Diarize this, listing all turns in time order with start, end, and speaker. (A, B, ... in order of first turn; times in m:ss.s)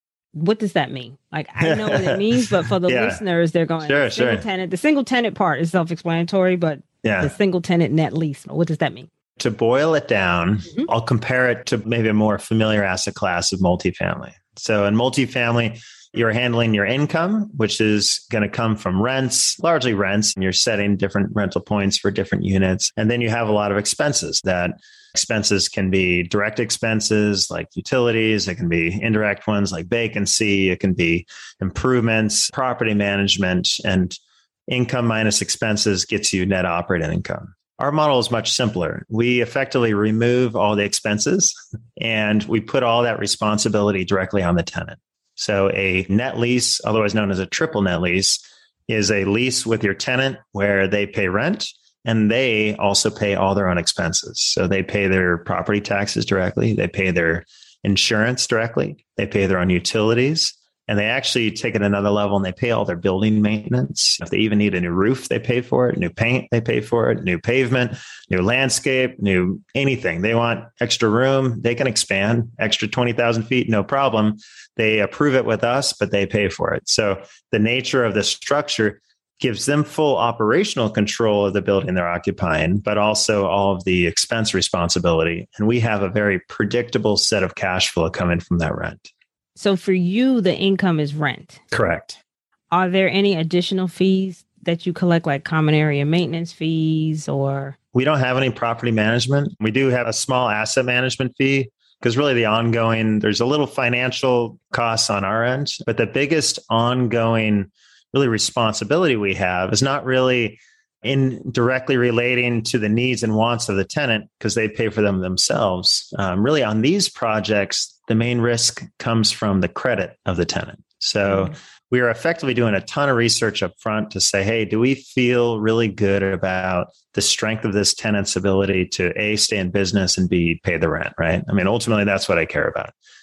0:00.3-0:09.1 A
0:01.6-0:03.2 B
0:03.8-0:04.4 B
0:07.0-0:07.3 B
0:09.4-1:29.1 B
1:29.6-1:31.6 A
1:31.7-1:32.2 B
1:32.7-1:37.8 A
1:37.9-2:12.9 B